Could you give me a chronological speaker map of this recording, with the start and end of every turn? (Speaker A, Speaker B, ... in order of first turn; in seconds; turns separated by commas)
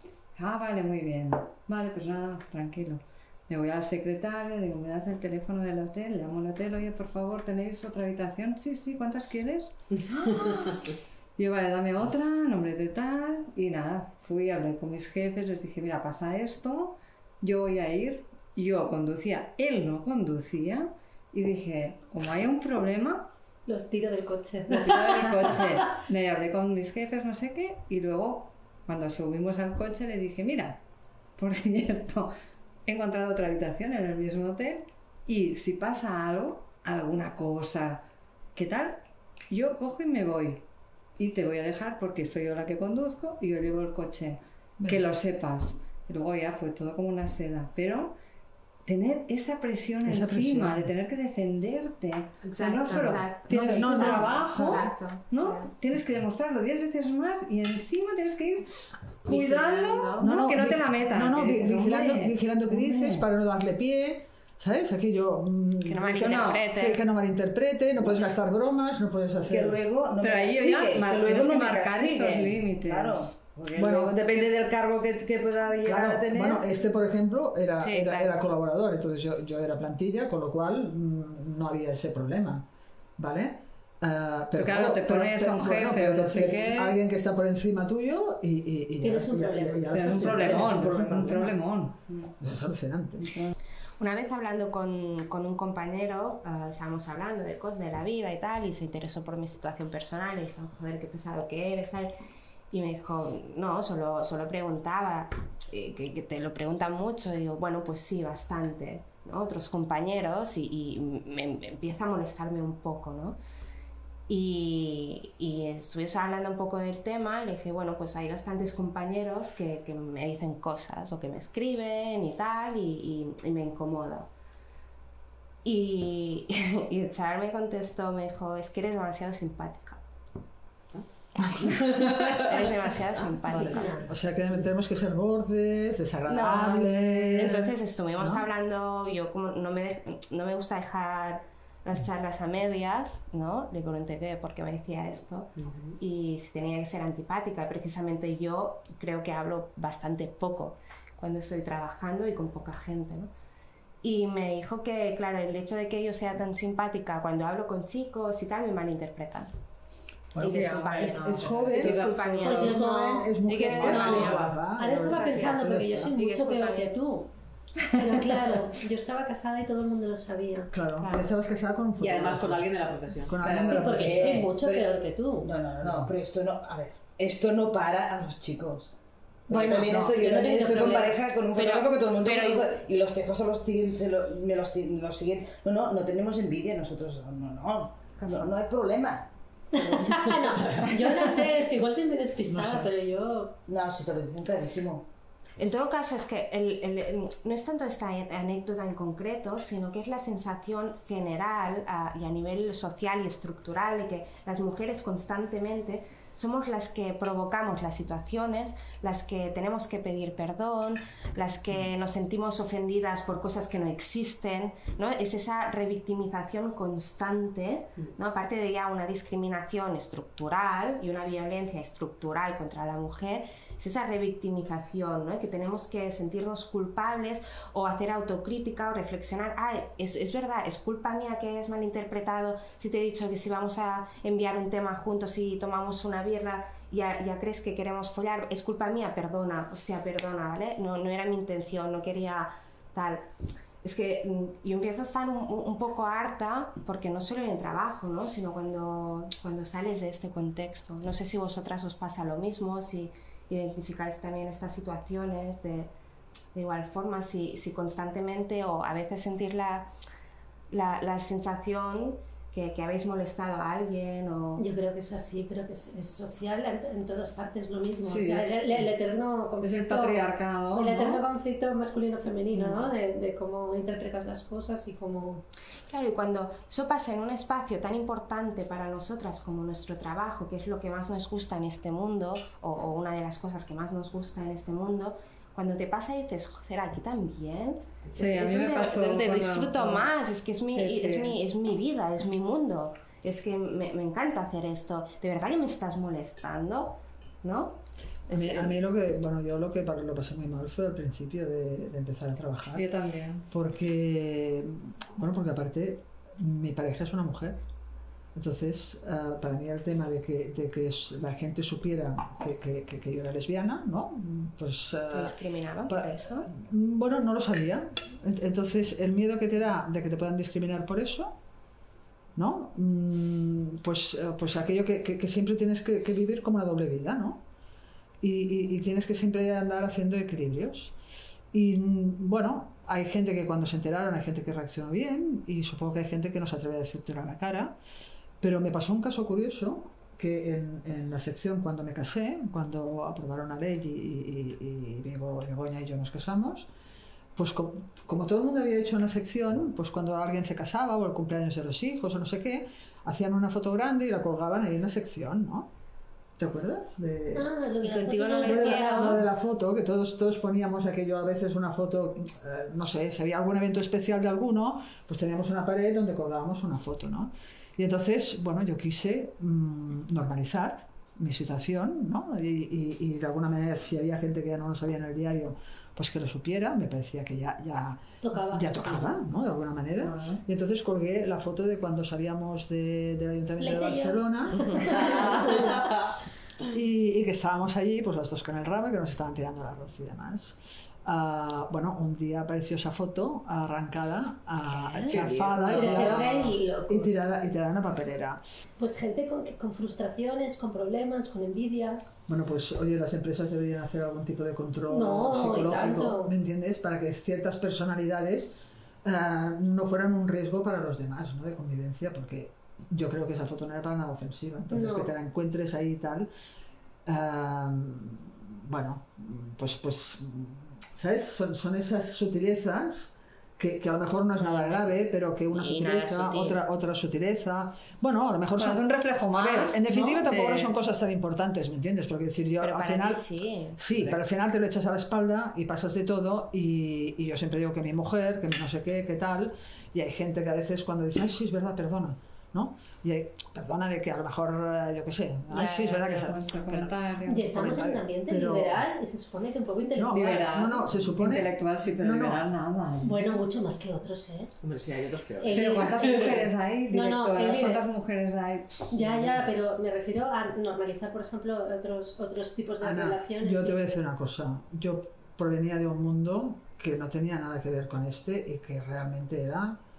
Speaker A: 0.3-23.3, Speaker B: 23.6-25.6, Speaker A: 24.7-30.8, Speaker A: 31.4-32.3, Speaker A: 32.9-40.6, Speaker A: 41.2-48.1, Speaker A: 48.9-58.7, Speaker C: 50.0-50.9, Speaker D: 52.4-55.7, Speaker C: 53.1-54.9, Speaker A: 59.2-63.2, Speaker D: 59.3-60.2, Speaker C: 60.2-69.8, Speaker D: 65.8-67.0, Speaker A: 66.2-66.6, Speaker E: 69.4-76.7, Speaker A: 70.2-73.3, Speaker C: 73.7-74.2, Speaker C: 75.8-82.7, Speaker D: 77.8-78.3, Speaker C: 83.2-91.5, Speaker A: 84.5-87.0, Speaker B: 89.0-90.6, Speaker A: 89.9-92.0, Speaker E: 90.1-91.5, Speaker C: 92.4-93.3, Speaker A: 93.2-93.5, Speaker D: 94.0-102.1, Speaker D: 102.7-113.4, Speaker D: 114.3-124.3, Speaker D: 125.6-130.0, Speaker C: 131.4-132.2, Speaker F: 131.7-132.3, Speaker D: 132.4-134.1, Speaker C: 133.5-138.5, Speaker B: 133.8-134.0, Speaker D: 136.3-153.3, Speaker F: 145.6-145.9, Speaker D: 154.0-159.5, Speaker C: 160.3-166.1, Speaker D: 160.4-162.9, Speaker A: 160.4-162.8, Speaker B: 162.4-167.3, Speaker D: 163.4-166.9, Speaker B: 167.9-170.7, Speaker C: 170.7-172.7, Speaker D: 171.0-171.3, Speaker F: 172.0-173.7, Speaker C: 173.2-174.4, Speaker A: 173.4-173.9, Speaker B: 173.4-175.5, Speaker E: 173.9-174.6, Speaker F: 174.3-174.9, Speaker E: 175.4-178.9, Speaker E: 179.5-189.3, Speaker C: 179.5-180.2, Speaker B: 179.5-181.2, Speaker D: 181.5-182.7, Speaker B: 189.7-193.6, Speaker C: 192.4-192.9, Speaker E: 193.7-195.1, Speaker D: 195.6-243.2, Speaker D: 243.8-255.9, Speaker D: 256.5-259.9, Speaker D: 260.7-264.6, Speaker B: 264.6-275.4, Speaker A: 268.0-268.9, Speaker A: 269.6-271.2, Speaker D: 272.5-272.9, Speaker D: 275.9-297.8, Speaker A: 288.1-290.1, Speaker A: 290.7-291.3, Speaker D: 298.3-298.7, Speaker C: 298.3-302.9, Speaker A: 302.7-303.5, Speaker C: 303.5-307.6, Speaker C: 308.3-321.3, Speaker D: 315.1-316.5, Speaker C: 322.4-327.4, Speaker C: 328.2-331.0, Speaker C: 331.5-337.8, Speaker C: 338.4-346.7, Speaker C: 347.3-355.7, Speaker C: 356.4-357.5, Speaker B: 357.3-359.2, Speaker D: 357.8-359.2, Speaker C: 358.4-385.7, Speaker B: 378.2-379.1, Speaker A: 380.0-380.4, Speaker B: 383.6-385.9, Speaker F: 385.0-385.9, Speaker C: 386.6-398.4, Speaker D: 394.7-396.9, Speaker F: 395.1-395.8, Speaker B: 395.7-397.1, Speaker B: 398.8-402.2, Speaker C: 402.3-416.3, Speaker B: 404.9-406.3, Speaker B: 414.7-415.1, Speaker C: 417.1-433.2, Speaker D: 424.4-424.9, Speaker D: 425.5-426.6, Speaker A: 428.6-430.7, Speaker D: 432.6-433.8, Speaker C: 433.8-448.8, Speaker D: 445.6-445.9, Speaker A: 445.6-447.5, Speaker B: 447.3-450.4, Speaker C: 449.9-452.5, Speaker A: 450.1-453.2, Speaker B: 453.0-454.5, Speaker F: 454.6-456.1, Speaker B: 455.4-457.8, Speaker A: 455.5-459.4, Speaker B: 458.9-463.8, Speaker C: 462.8-469.8